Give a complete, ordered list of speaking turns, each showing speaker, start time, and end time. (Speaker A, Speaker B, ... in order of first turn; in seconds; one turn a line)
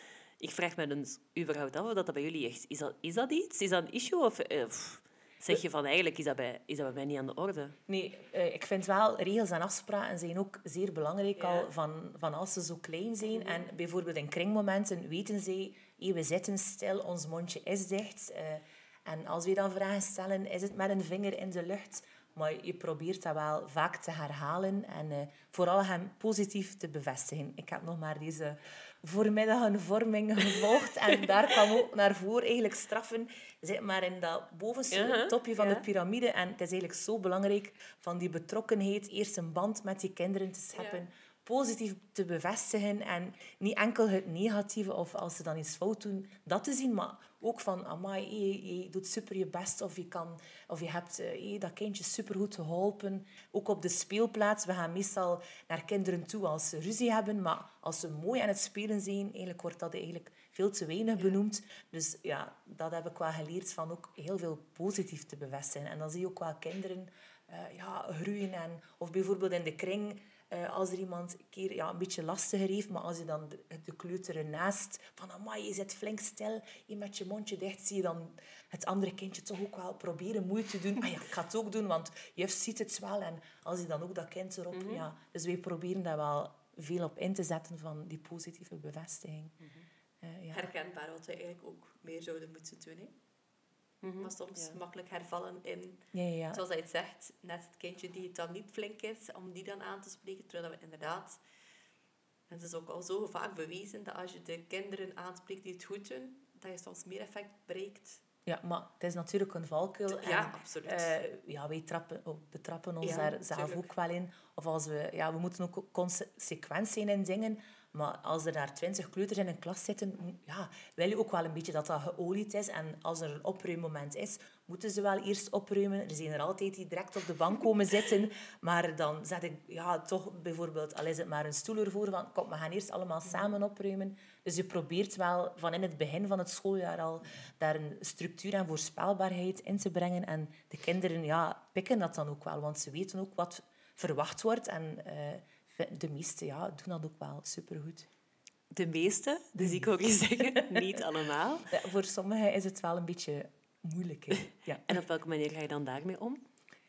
Speaker A: 0.4-7.8
Speaker B: 7.9-89.6
Speaker C: 11.4-11.7
Speaker A: 34.9-35.8
Speaker C: 40.7-41.0
Speaker A: 84.7-85.0
Speaker B: 90.2-90.7
Speaker C: 90.5-93.1
Speaker A: 94.0-94.8
Speaker C: 94.2-101.4
Speaker B: 96.1-96.6
Speaker C: 102.5-108.2
Speaker B: 108.5-148.1
Speaker C: 110.1-111.1
Speaker C: 113.0-113.9
Speaker A: 148.7-151.7
Speaker B: 149.6-149.9
Speaker B: 150.5-150.8
Speaker B: 151.7-155.0
Speaker A: 154.4-156.4